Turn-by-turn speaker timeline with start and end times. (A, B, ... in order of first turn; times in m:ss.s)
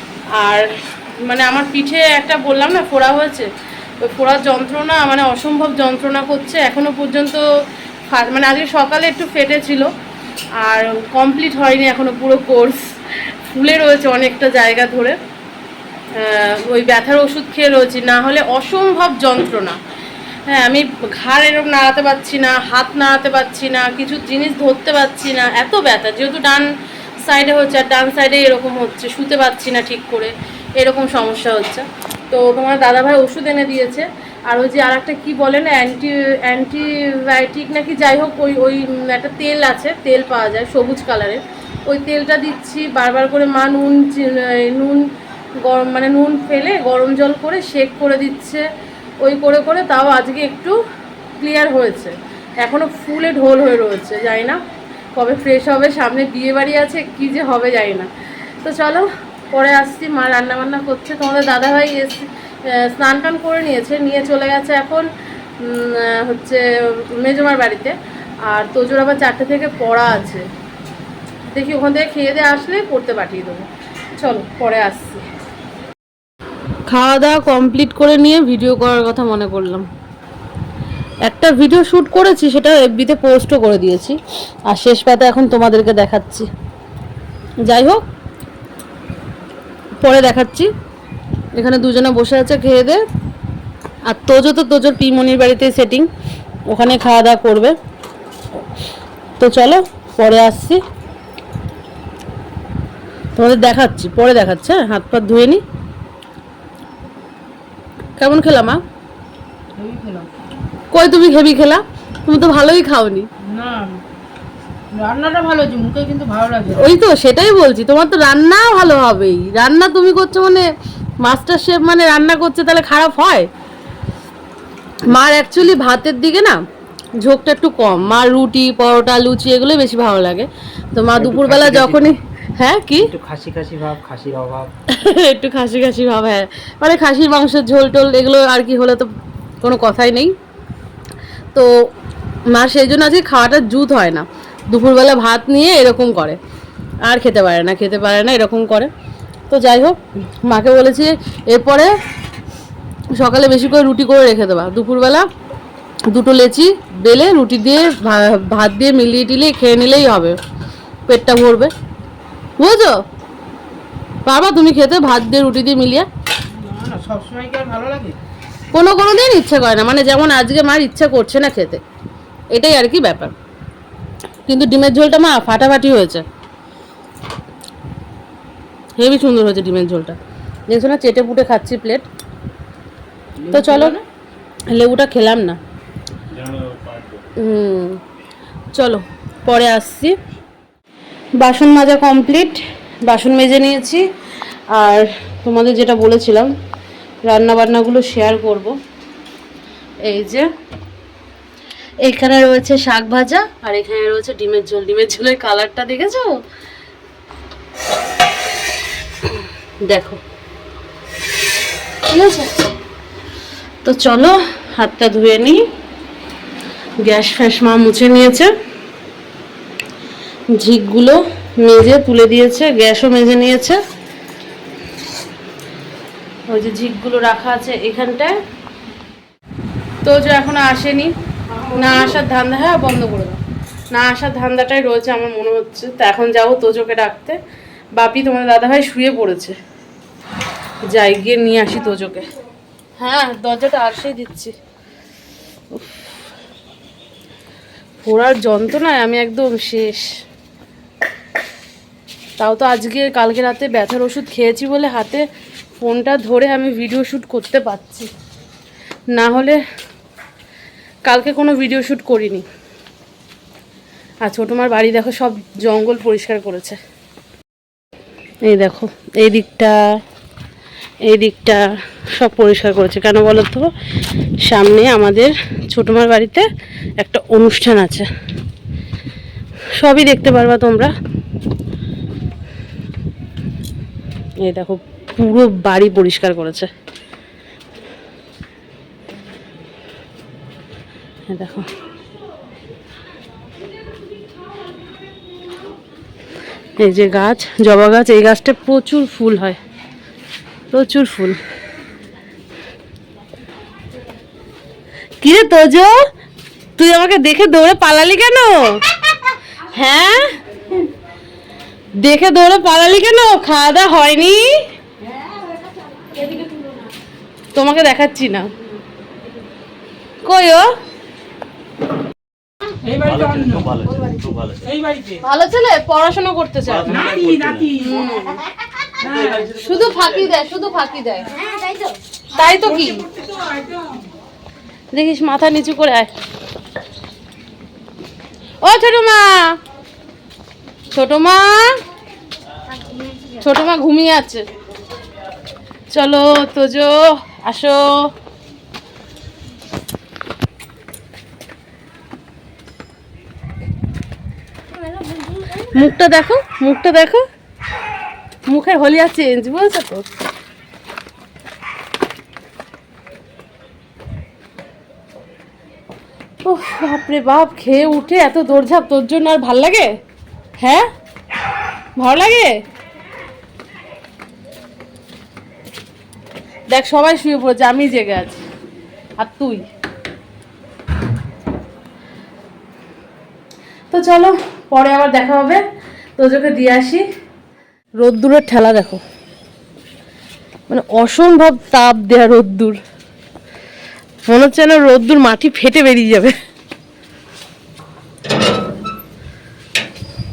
0:00.3-0:03.5 A
0:04.0-0:07.4 A
0:08.1-0:09.9 A
0:10.6-0:15.2 A
0:16.2-0:19.8 A
0:20.5-0:26.7 A
0:27.2-0:45.1 A
0:45.6-0:48.6 A
0:49.2-0:50.8 A
0:51.4-0:54.6 A
0:55.2-0:58.1 A
0:58.6-1:05.1 A
1:05.6-1:10.4 A
1:11.5-1:15.2 A
1:16.9-1:19.9 A
1:21.2-1:26.5 A
1:27.6-1:28.0 A
1:30.0-1:30.7 A
1:31.5-1:33.0 A
1:34.1-1:36.1 A
1:36.7-1:37.8 A
1:39.4-1:40.8 A
1:43.4-1:45.6 A
1:48.2-1:48.8 A
1:49.8-1:50.3 B
1:50.9-1:53.3 A
1:53.4-1:54.0 B
1:54.9-1:56.9 B
1:56.8-2:00.7 A
2:01.2-2:03.5 A
2:05.0-2:06.6 A
2:07.2-2:13.1 A
2:11.2-2:12.1 C
2:13.1-2:14.7 C
2:14.9-2:19.1 A
2:19.6-2:20.3 A
2:21.5-2:21.8 A
2:22.5-2:26.4 A
2:27.0-2:28.9 A
2:29.5-2:31.9 A
2:33.1-2:35.3 A
2:36.1-2:40.4 A
2:41.1-2:41.7 A
2:42.6-2:43.0 A
2:44.2-2:46.1 A
2:46.5-2:48.2 B
2:48.7-2:51.8 A
2:52.5-2:53.3 A
2:54.5-2:56.2 A
2:59.0-3:00.2 A
3:00.7-3:02.0 A
3:03.4-3:04.0 B
3:03.5-3:04.0 A
3:04.7-3:05.6 A
3:06.4-3:07.1 C
3:07.4-3:08.0 A
3:08.7-3:10.1 A
3:11.4-3:14.0 A
3:14.7-3:16.5 A
3:17.2-3:18.8 A
3:20.0-3:20.5 A
3:22.0-3:26.4 A
3:29.9-3:30.2 A
3:32.0-3:32.7 A
3:33.8-3:35.6 A
3:37.0-3:38.5 A
3:40.5-3:43.8 A
3:46.5-3:48.3 A
3:50.0-3:51.1 A
3:51.5-3:52.2 B
3:51.7-3:53.4 A
3:53.9-3:57.4 A
3:58.0-3:59.6 A
4:00.8-4:02.3 A
4:03.0-4:04.5 A
4:05.7-4:06.1 A
4:08.0-4:10.1 A
4:12.4-4:15.2 A
4:15.8-4:18.1 A
4:19.1-4:19.6 A
4:21.0-4:22.4 A
4:24.2-4:26.8 A
4:28.4-4:30.0 A
4:31.0-4:33.7 A
4:34.4-4:36.5 A
4:37.0-4:38.1 A
4:39.8-4:40.9 A
4:44.4-4:46.7 A
4:51.3-4:51.7 A
4:56.8-4:59.6 A
5:00.7-5:01.4 A
5:05.2-5:06.0 A
5:06.8-5:08.8 A
5:09.7-5:10.8 A
5:12.0-5:14.6 A
5:17.5-5:18.5 A
5:20.2-5:20.7 A
5:22.8-5:23.7 B
5:23.0-5:24.6 C
5:24.7-5:25.2 B
5:25.2-5:27.1 A
5:26.9-5:27.7 B
5:27.0-5:27.7 C
5:27.7-5:28.4 A
5:29.0-5:29.4 B
5:29.4-5:31.5 A
5:32.3-5:33.1 A
5:34.9-5:36.1 A
5:38.6-5:39.6 A
5:40.9-5:41.8 A
5:43.2-5:44.4 A
5:45.9-5:48.1 A
5:55.4-5:57.2 A
5:58.5-6:00.0 A
6:06.4-6:09.9 A
6:10.6-6:10.9 A
6:12.0-6:12.6 A
6:16.7-6:18.4 A
6:19.2-6:19.6 A
6:23.9-6:25.6 A
6:26.2-6:27.0 A
6:28.0-6:29.0 A
6:30.7-6:32.8 A
6:34.2-6:36.4 A